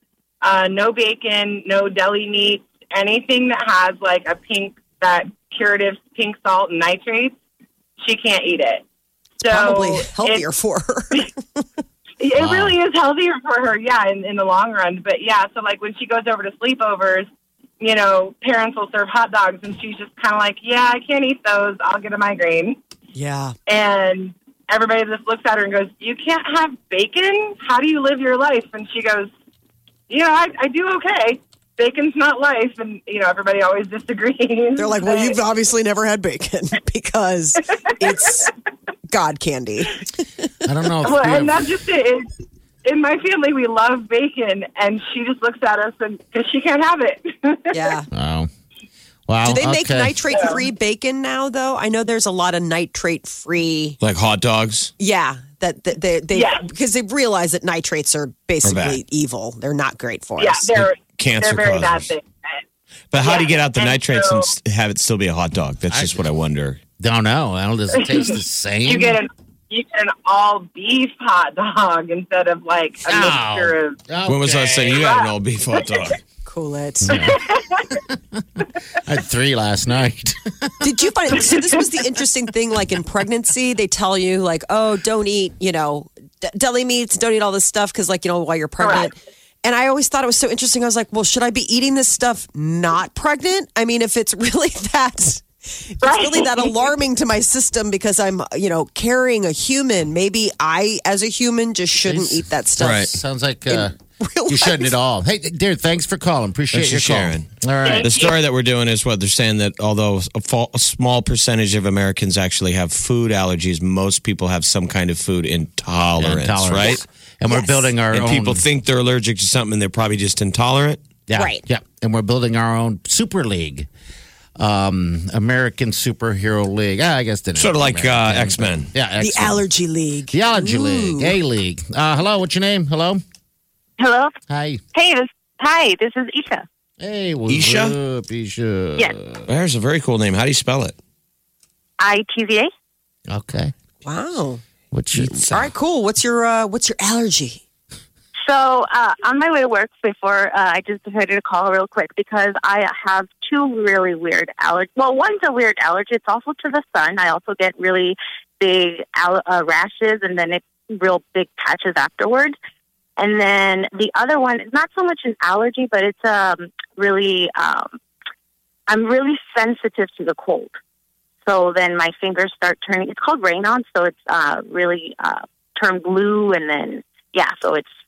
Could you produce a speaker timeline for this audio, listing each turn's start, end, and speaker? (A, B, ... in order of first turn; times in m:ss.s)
0:00.4-0:07.4 A
0:08.0-0:08.8 A
0:09.4-0:11.6 B
0:09.4-0:10.5 A
0:12.2-0:17.3 A
0:17.8-0:22.8 A
0:23.2-0:23.6 B
0:23.7-0:29.3 A
0:30.1-0:35.4 A
0:34.8-0:38.5 B
0:38.1-0:38.5 A
0:39.1-0:40.2 B
0:40.6-0:41.7 C
0:40.8-0:41.1 B
0:41.1-0:42.3 A
0:42.8-0:47.9 A
0:47.7-0:48.1 B
0:48.1-0:48.5 C
0:49.3-0:50.2 C
0:49.4-0:54.0 B
0:50.3-0:50.6 A
0:54.0-0:54.9 D
0:55.0-1:00.8 B
0:56.3-0:56.6 A
0:58.6-0:59.0 D
1:00.4-1:02.6 A
1:00.7-1:02.1 D
1:03.1-1:06.8 D
1:03.2-1:04.5 A
1:05.9-1:06.3 C
1:07.0-1:09.2 C
1:07.9-1:14.0 A
1:13.0-1:15.1 C
1:14.3-1:16.2 D
1:15.0-1:15.3 A
1:16.4-1:17.2 B
1:17.0-1:18.4 C
1:17.1-1:18.0 A
1:19.0-1:20.9 C
1:20.8-1:43.1 B
1:21.5-1:21.7 A
1:28.8-1:29.1 A
1:36.0-1:36.8 A
1:42.0-1:44.0 C
1:42.8-1:43.2 D
1:43.7-1:44.9 B
1:44.5-1:48.1 C
1:46.7-1:57.0 D
1:47.9-1:48.3 A
1:56.2-1:58.7 C
1:56.8-1:58.0 B
1:58.1-2:01.0 D
2:01.3-2:03.9 C
2:01.4-2:01.6 B
2:04.6-2:09.7 C
2:07.6-2:08.9 D
2:09.2-2:11.4 B
2:10.3-2:13.2 C
2:14.0-2:14.3 E
2:14.5-2:14.8 C
2:14.9-2:16.6 E
2:17.0-2:19.5 C
2:17.5-2:18.0 D
2:19.5-2:21.0 D
2:22.0-2:22.7 E
2:23.3-2:23.7 C
2:24.0-2:24.6 B
2:24.9-2:25.7 C
2:25.1-2:27.6 B
2:28.4-2:42.6 E
2:43.2-2:47.9 E
2:48.9-2:50.8 E
2:51.5-2:57.9 E